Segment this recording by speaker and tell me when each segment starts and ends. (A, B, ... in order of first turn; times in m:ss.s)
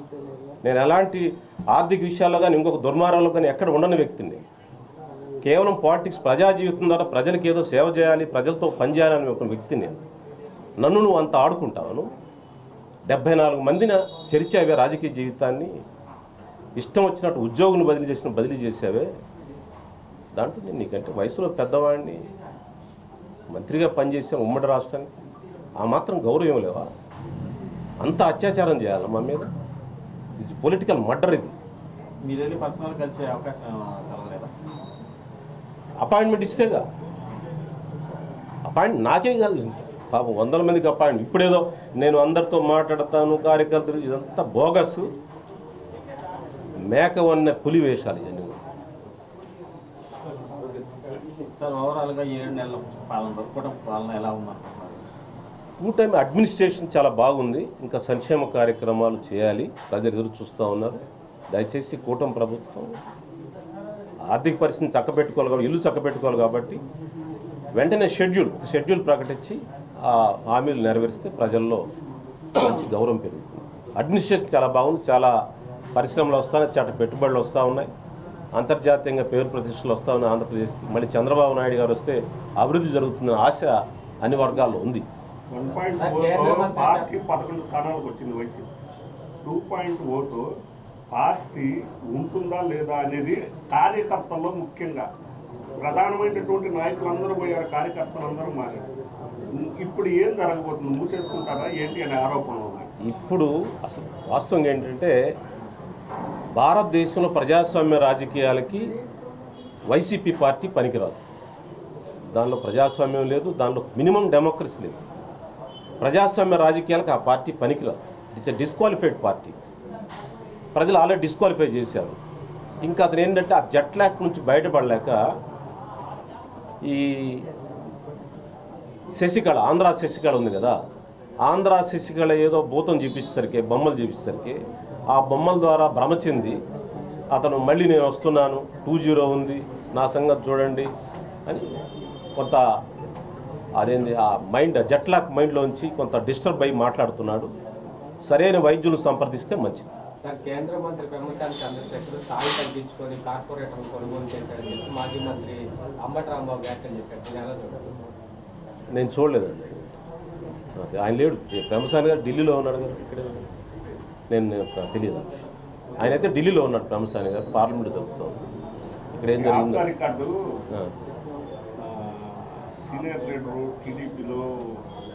0:00.6-0:04.4 A
0:05.4-0:10.0 A
0:10.8-0:12.1 A
0:13.1-0:15.7 A
0:16.8-0:19.1 A
0:20.4-0:22.2 A
0:23.5-0:25.1 A
0:25.8-0:26.9 A
0:28.0-0:29.5 A
0:30.4-0:31.6 A
0:32.2-0:34.5 B
0:36.0-0:36.8 A
0:38.7-0:45.1 A
0:46.9-0:48.6 A
0:51.3-0:55.0 B
0:55.8-1:03.0 A
1:04.3-1:06.8 A
1:07.8-1:11.9 A
1:12.6-1:15.3 A
1:16.0-1:17.9 A
1:18.6-1:25.1 A
1:25.5-1:28.7 C
1:25.9-1:27.1 D
1:29.4-1:30.5 C
1:31.1-1:35.1 C
1:35.8-1:38.9 C
1:39.5-1:42.9 C
1:43.0-1:45.2 A
1:46.6-1:48.9 A
1:49.9-1:51.2 A
1:52.3-1:55.0 A
1:56.0-1:59.6 A
2:00.8-2:02.2 A
2:02.8-2:05.2 A
2:06.8-2:07.4 A
2:09.2-2:10.8 A
2:11.4-2:14.6 A
2:15.1-2:16.6 A
2:17.3-2:20.9 A
2:22.4-2:22.6 A
2:23.8-2:27.5 A
2:28.3-2:29.9 A
2:30.2-2:38.0 D
2:38.9-2:40.0 A
2:40.8-2:43.5 A
2:44.3-2:48.5 A
2:49.1-2:49.9 A
2:49.3-2:50.6 C
2:51.8-2:54.8 C